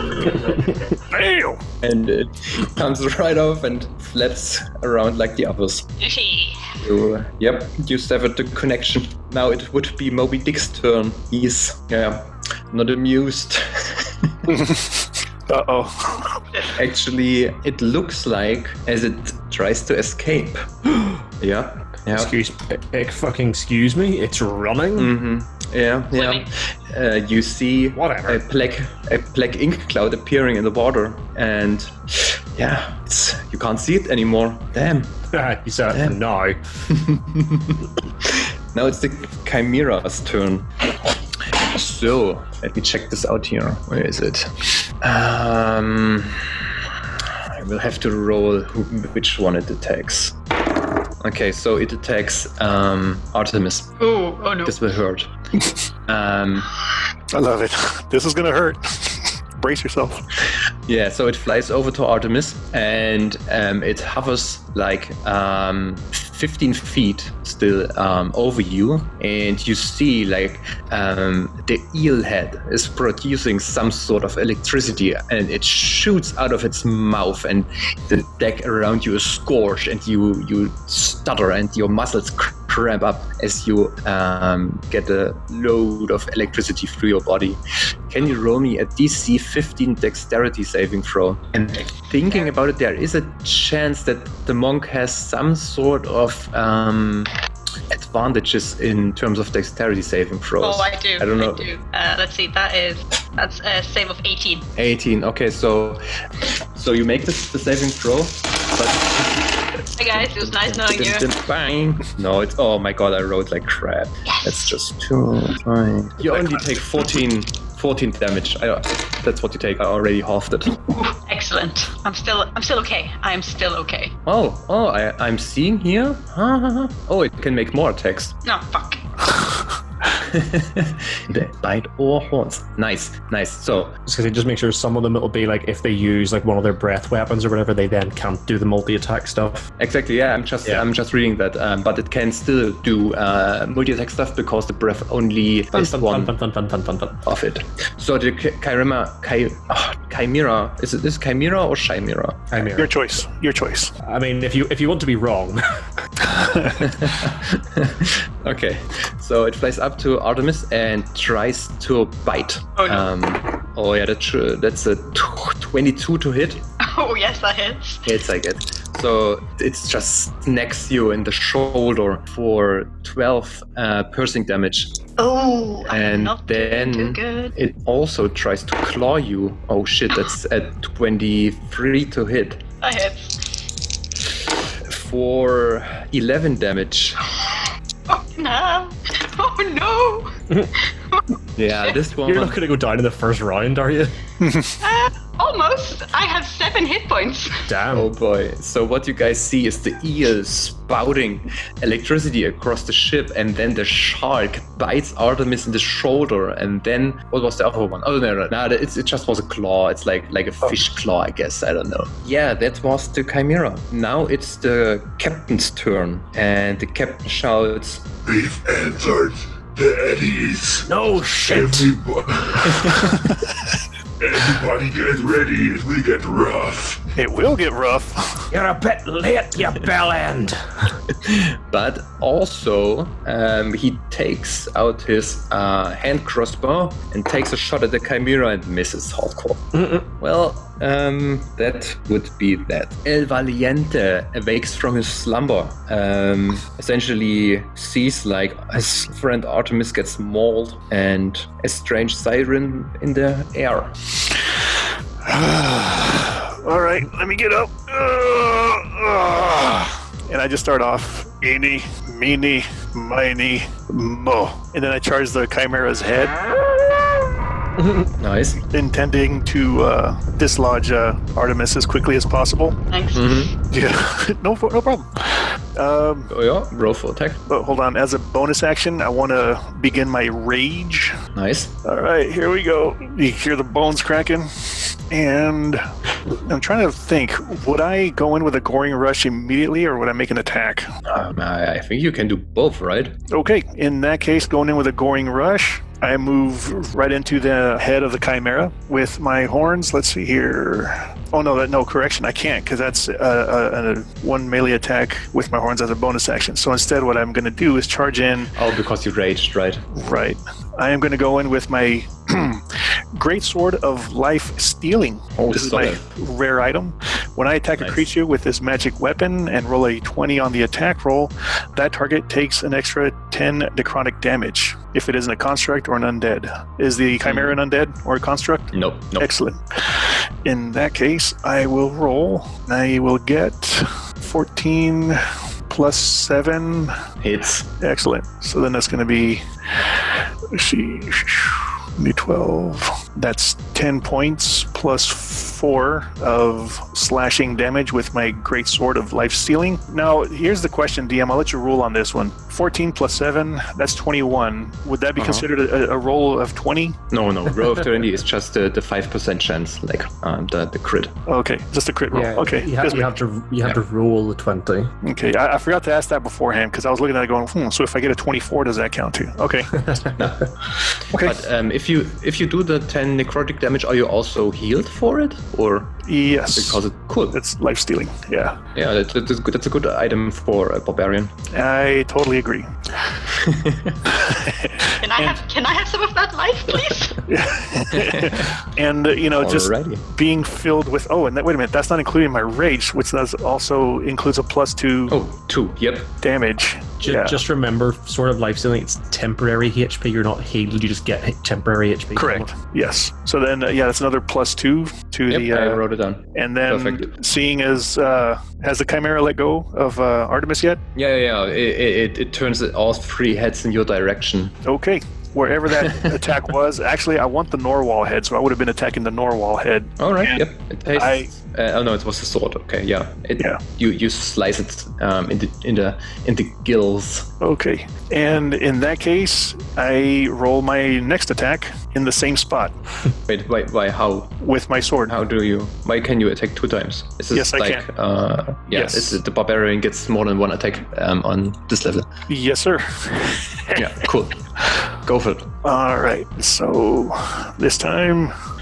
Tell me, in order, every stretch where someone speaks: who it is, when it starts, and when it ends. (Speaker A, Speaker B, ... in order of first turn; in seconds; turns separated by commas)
Speaker A: 1.1-1.6, Speaker B: 1.8-5.9, Speaker C: 6.0-6.7, Speaker B: 6.8-14.5, Speaker A: 14.5-16.4, Speaker B: 16.7-20.7, Speaker D: 20.9-21.2, Speaker B: 21.4-22.3, Speaker D: 22.1-25.1, Speaker B: 24.9-35.2, Speaker C: 26.1-26.5, Speaker D: 27.9-28.4, Speaker D: 35.3-36.6, Speaker B: 35.9-36.2, Speaker B: 36.9-40.7, Speaker B: 41.5-46.6, Speaker B: 47.5-50.4, Speaker B: 51.2-53.9, Speaker C: 54.0-54.8, Speaker B: 54.6-55.3, Speaker B: 56.1-56.7, Speaker A: 57.3-60.2, Speaker B: 60.9-97.3, Speaker B: 97.9-101.7, Speaker C: 100.6-104.7, Speaker B: 104.8-106.0, Speaker B: 106.7-109.5, Speaker C: 110.0-111.3, Speaker B: 110.1-120.8, Speaker C: 120.9-124.2, Speaker B: 124.2-128.3, Speaker C: 128.4-129.0, Speaker B: 130.2-134.0, Speaker D: 134.1-139.7, Speaker B: 139.8-146.3, Speaker D: 145.7-147.2, Speaker B: 147.2-152.6, Speaker D: 152.5-153.0, Speaker A: 152.7-153.9, Speaker D: 154.0-155.6, Speaker A: 156.3-156.8, Speaker B: 156.8-166.6, Speaker C: 162.8-163.1, Speaker C: 166.8-168.1, Speaker B: 168.1-175.0, Speaker C: 175.2-177.5, Speaker B: 175.9-182.6, Speaker C: 182.8-183.5, Speaker B: 184.8-187.2, Speaker C: 188.1-190.3, Speaker C: 191.1-192.0, Speaker B: 191.6-192.6, Speaker D: 192.2-194.2, Speaker A: 194.4-194.7, Speaker C: 194.8-197.7, Speaker D: 197.7-198.1, Speaker B: 197.9-218.1, Speaker E: 218.2-220.9, Speaker D: 220.9-221.9, Speaker E: 221.4-223.3, Speaker E: 224.2-227.0, Speaker A: 227.2-228.5, Speaker D: 228.5-230.6, Speaker B: 231.1-253.9, Speaker D: 239.7-240.0, Speaker A: 255.2-266.5, Speaker D: 267.8-268.1, Speaker B: 268.2-268.6, Speaker A: 268.7-272.8, Speaker C: 272.9-273.5, Speaker B: 273.1-273.5, Speaker A: 273.7-276.3, Speaker B: 276.3-277.4, Speaker A: 277.5-281.2, Speaker B: 281.4-281.7, Speaker A: 281.8-285.8, Speaker A: 286.4-290.9, Speaker B: 291.1-293.1, Speaker A: 293.3-308.5, Speaker B: 308.6-309.8, Speaker A: 309.9-337.0, Speaker B: 315.4-316.0, Speaker B: 327.2-327.6, Speaker B: 328.7-329.3, Speaker B: 337.2-337.7, Speaker A: 337.8-357.0, Speaker B: 355.2-355.4, Speaker B: 357.1-361.1, Speaker A: 361.3-363.1, Speaker D: 362.1-364.9, Speaker A: 365.0-369.8, Speaker D: 369.8-370.2, Speaker B: 370.2-370.4, Speaker A: 371.1-371.4, Speaker B: 371.1-376.0, Speaker A: 376.0-378.6, Speaker B: 376.5-377.4, Speaker B: 378.7-381.3, Speaker A: 381.5-382.7, Speaker B: 383.3-384.0, Speaker A: 384.1-385.4, Speaker C: 385.0-387.2, Speaker A: 387.3-395.2, Speaker B: 387.9-388.5, Speaker B: 389.4-390.0, Speaker B: 395.1-396.1, Speaker A: 396.2-397.4, Speaker D: 397.0-402.5, Speaker A: 402.1-405.8, Speaker B: 405.3-407.1, Speaker A: 406.3-410.8, Speaker B: 410.9-414.5, Speaker A: 414.6-421.3, Speaker B: 415.8-416.1, Speaker B: 420.0-427.3, Speaker A: 427.4-432.7, Speaker B: 433.3-434.3, Speaker A: 434.4-435.1, Speaker B: 435.1-442.1, Speaker A: 437.3-437.9, Speaker A: 438.7-439.2, Speaker A: 442.3-443.9, Speaker B: 443.8-444.4, Speaker B: 445.0-445.5, Speaker A: 445.6-448.3